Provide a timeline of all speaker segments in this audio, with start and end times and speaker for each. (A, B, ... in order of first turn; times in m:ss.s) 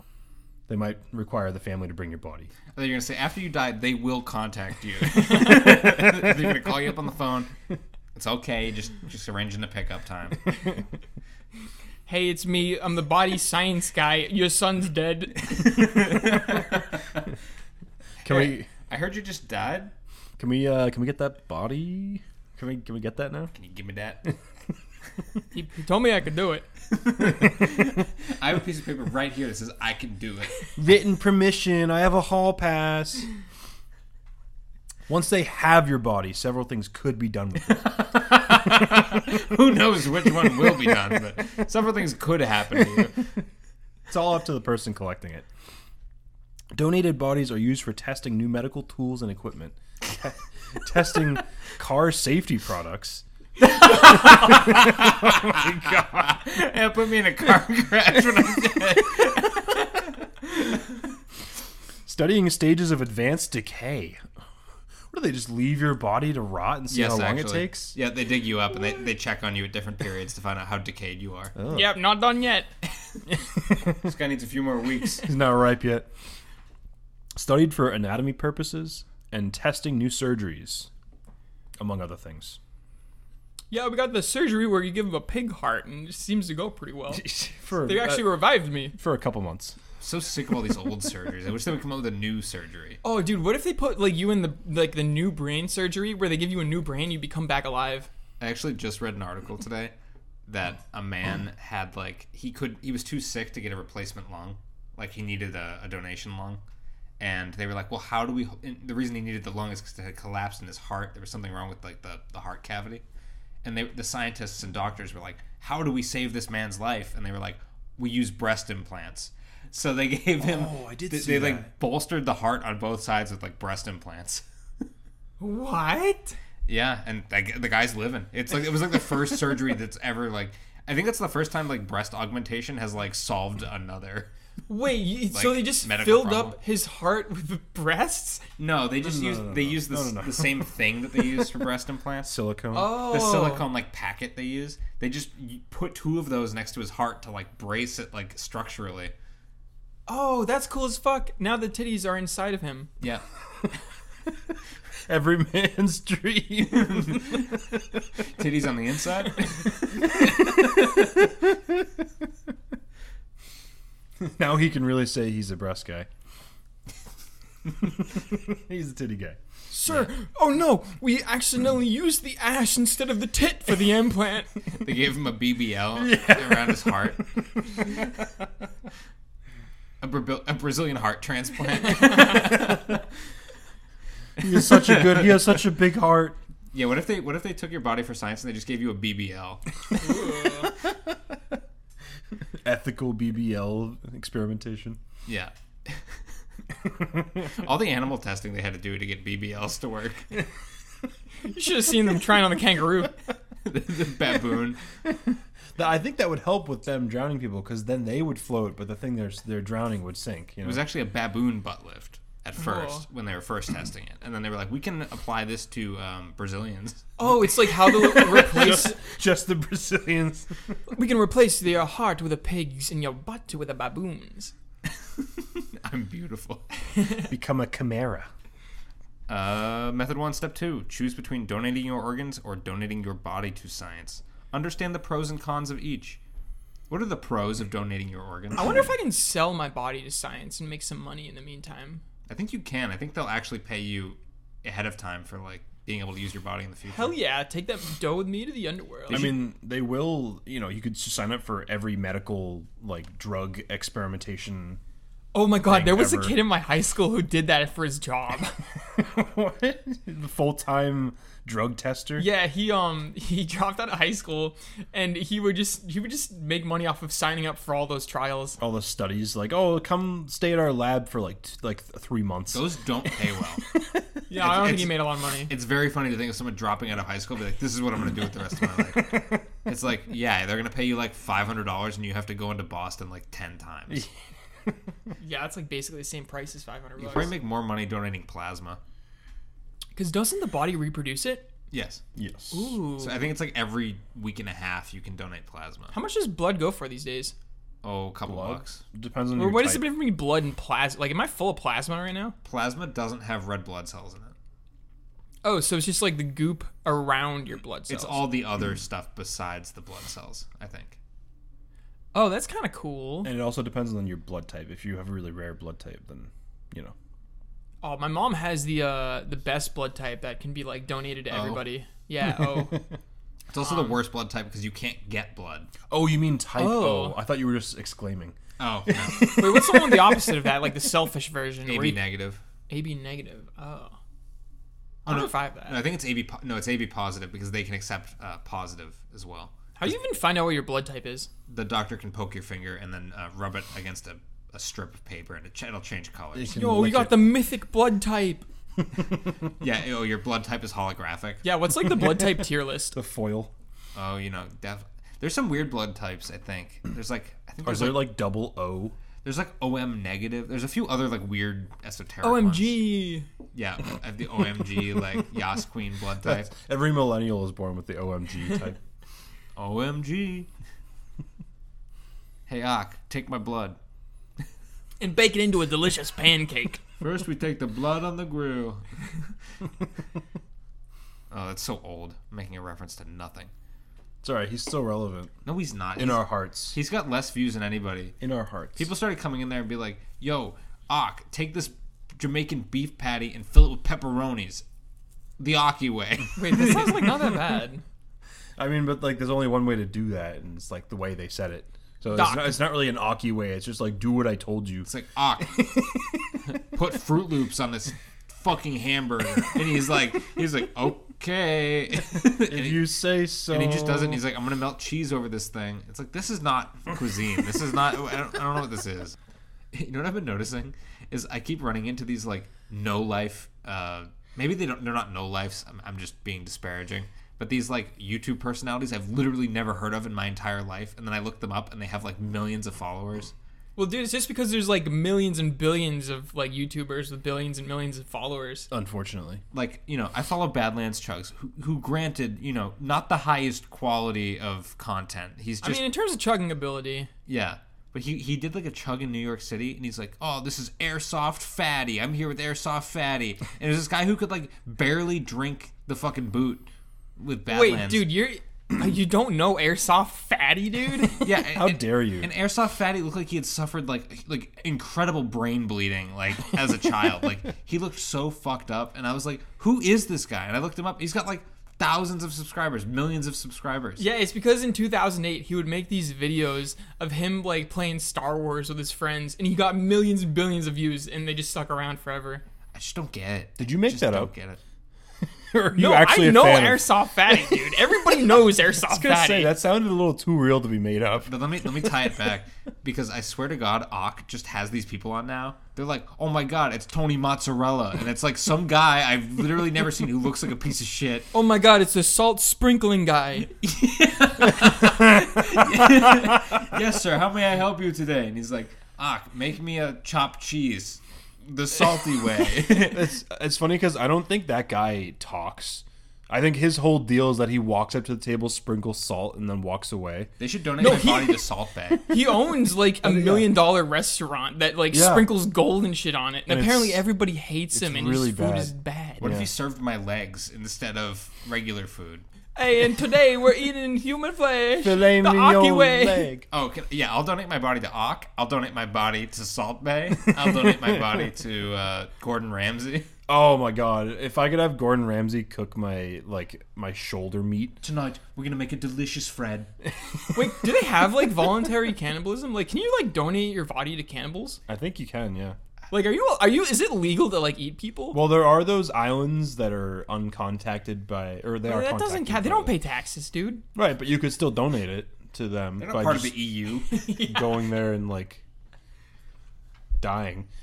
0:00.7-0:02.5 A
0:02.7-0:07.5 B
0:08.2-0:10.4 B
0:12.1-0:15.7 C
0:15.6-0:17.2 B
0:18.2-0:19.9 B
0:18.2-0:18.7 A
0:20.4-0:23.5 A
0:23.5-0:24.3 B
0:25.5-0:26.7 C
0:26.9-0:30.7 B
0:30.8-0:33.3 A
0:35.1-0:38.0 A
0:37.8-0:43.3 B
0:44.1-0:45.5 A
0:46.7-0:53.2 A
0:53.6-1:00.7 B
0:53.8-0:56.4 A
1:02.1-1:04.2 A
1:05.1-1:08.0 A
1:06.9-1:11.6 B
1:11.6-1:12.0 A
1:11.7-1:12.7 C
1:13.6-1:14.0 A
1:13.9-1:15.3 B
1:15.2-1:16.1 A
1:17.4-1:20.9 A
1:21.8-1:22.6 A
1:23.7-1:27.2 C
1:27.1-1:29.8 A
1:27.8-1:29.0 C
1:30.0-1:33.0 B
1:33.0-1:38.1 C
1:38.4-1:39.9 B
1:40.5-1:46.6 B
1:47.2-1:53.0 B
1:53.6-2:04.4 B
2:00.4-2:01.7 A
2:05.4-2:06.4 C
2:06.7-2:14.3 B
2:14.7-2:18.4 C
2:15.3-2:16.6 B
2:18.6-2:29.1 B
2:19.0-2:20.7 A
2:22.2-2:23.0 A
2:22.7-2:23.7 C
2:30.1-2:32.9 C
2:35.1-2:37.8 A
2:36.8-2:37.5 B
2:38.4-2:41.1 B
2:40.0-2:42.0 A
2:44.2-2:46.1 A
2:47.8-2:49.4 A
2:49.7-2:54.5 C
2:54.7-2:57.2 B
2:56.0-2:58.3 A
3:00.0-3:03.1 B
3:04.4-3:06.4 A
3:04.5-3:05.6 B
3:06.7-3:09.6 B
3:10.0-3:10.7 C
3:12.6-3:15.0 A
3:15.3-3:16.2 B
3:17.4-3:20.3 B
3:21.5-3:23.1 C
3:23.6-3:24.8 B
3:25.8-3:30.8 A
3:30.6-3:37.2 B
3:32.6-3:33.0 C
3:37.2-3:39.0 C
3:37.8-3:40.6 A
3:40.9-3:44.5 C
3:45.2-3:46.6 B
3:47.3-3:48.3 A
3:49.3-3:56.2 B
3:56.9-3:58.9 B
3:58.6-4:02.0 C
4:02.3-4:07.1 B
4:06.9-4:09.4 C
4:09.1-4:14.8 A
4:15.3-4:18.6 C
4:15.6-4:16.4 A
4:18.9-4:22.3 A
4:22.2-4:28.6 C
4:28.6-4:32.6 A
4:32.5-4:33.6 B
4:34.3-4:35.5 C
4:34.4-4:44.0 B
4:45.2-4:47.3 C
4:47.0-4:48.8 B
4:50.0-4:51.5 C
4:51.7-4:52.0 B
4:52.2-4:52.8 A
4:52.5-4:53.2 C
4:53.0-4:55.9 B
4:55.9-4:57.4 C
4:57.8-4:58.8 B
4:58.3-4:59.9 A
4:59.4-5:02.4 C
5:02.4-5:04.3 B
5:05.4-5:08.3 C
5:07.9-5:11.0 B
5:12.1-5:13.3 C
5:13.2-5:17.0 A
5:17.8-5:22.8 C
5:21.3-5:21.6 B
5:23.5-5:25.7 B
5:23.6-5:24.0 C
5:25.9-5:28.4 A
5:26.6-5:27.2 C
5:28.6-5:29.4 B
5:28.9-5:30.3 A
5:29.2-5:32.0 C
5:31.7-5:32.4 B
5:32.7-5:34.0 C
5:35.1-5:35.8 C
5:35.1-5:39.6 B
5:39.8-5:41.3 C
5:41.5-5:46.5 B
5:46.4-5:47.2 A
5:46.5-5:48.5 C
5:49.6-5:51.4 B
5:51.4-5:53.0 C
5:52.0-5:52.4 A
5:52.9-5:53.5 A
5:54.0-5:58.2 B
5:57.6-5:59.0 A
5:59.2-6:02.8 B
6:02.2-6:03.3 C
6:03.5-6:06.5 B
6:06.2-6:08.8 A
6:09.6-6:10.5 B
6:12.5-6:13.8 B
6:15.0-6:16.8 C
6:17.0-6:18.8 B
6:21.3-6:23.5 B
6:24.2-6:25.3 A
6:25.5-6:28.2 B
6:26.0-6:26.8 A
6:28.2-6:28.9 A
6:28.8-6:34.6 B
6:35.4-6:37.1 B
6:36.4-6:37.8 C
6:38.6-6:44.9 A
6:42.1-6:42.6 C
6:44.9-6:45.8 B
6:45.6-6:46.0 A
6:46.5-6:52.8 B
6:52.4-6:54.2 A
6:53.5-6:59.2 B
6:59.7-7:13.3 B
7:13.8-7:18.7 C
7:18.7-7:19.4 A
7:19.5-7:25.8 B
7:25.6-7:27.1 C
7:27.3-7:38.1 B
7:37.5-7:41.3 C
7:41.2-7:54.0 B
7:41.4-7:42.3 A
7:54.0-8:02.4 C
8:02.7-8:04.6 B
8:03.6-8:04.3 A
8:05.2-8:07.7 A
8:05.8-8:09.5 C
8:08.8-8:11.3 A
8:11.3-8:21.3 B
8:21.3-8:23.5 C
8:23.6-8:33.1 B
8:32.8-8:40.3 A
8:40.4-8:42.1 B
8:40.8-8:41.4 C
8:42.1-8:49.3 C
8:43.0-8:43.6 A
8:44.9-8:45.4 A
8:46.5-8:47.0 A
8:47.7-8:49.5 A
8:49.2-8:52.2 B
8:52.6-8:56.3 C
8:54.8-8:56.5 A
8:56.5-9:03.1 B
9:03.3-9:07.8 A
9:07.8-9:09.7 B
9:10.3-9:14.6 C
9:14.7-9:15.6 A
9:15.9-9:18.2 C
9:18.1-9:22.7 A
9:21.6-9:23.6 C
9:23.8-9:26.4 A
9:25.8-9:26.9 B
9:26.9-9:27.6 C
9:27.2-9:28.4 A
9:30.0-9:30.5 A